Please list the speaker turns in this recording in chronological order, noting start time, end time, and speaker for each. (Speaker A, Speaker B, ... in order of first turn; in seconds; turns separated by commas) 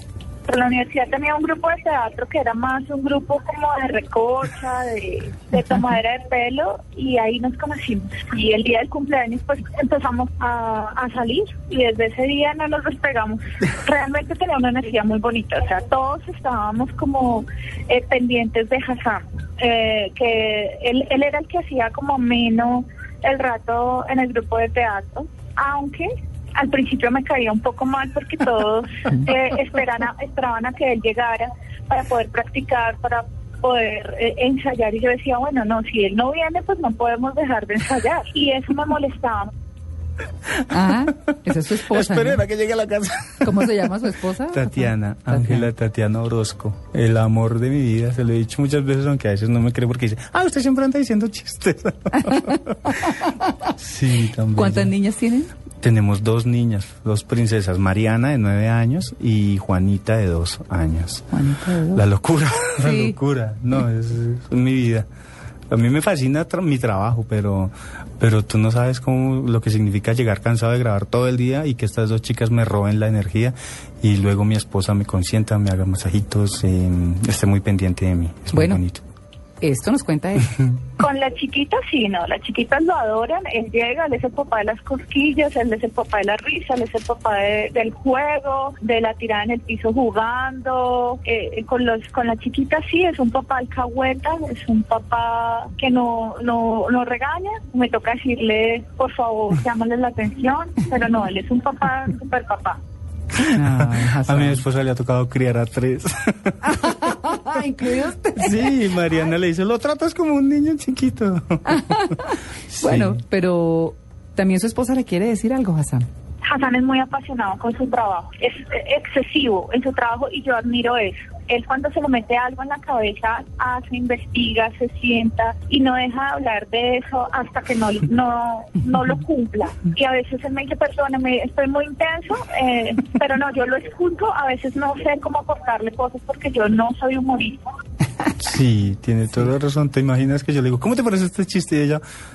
Speaker A: 0.5-39.5, Speaker B: 40.7-42.4, Speaker C: 41.9-43.9, Speaker B: 43.4-45.7, Speaker C: 44.5-54.9, Speaker B: 54.5-55.5, Speaker C: 55.8-61.3, Speaker B: 61.3-62.0, Speaker C: 61.9-65.1, Speaker B: 62.8-63.1, Speaker C: 65.7-79.0, Speaker B: 78.5-78.8, Speaker B: 79.6-80.5, Speaker A: 81.0-102.8, Speaker C: 103.3-107.6, Speaker B: 103.4-104.6, Speaker B: 106.6-108.6, Speaker C: 108.3-113.2, Speaker B: 111.7-116.1, Speaker A: 116.4-137.6, Speaker C: 138.4-142.0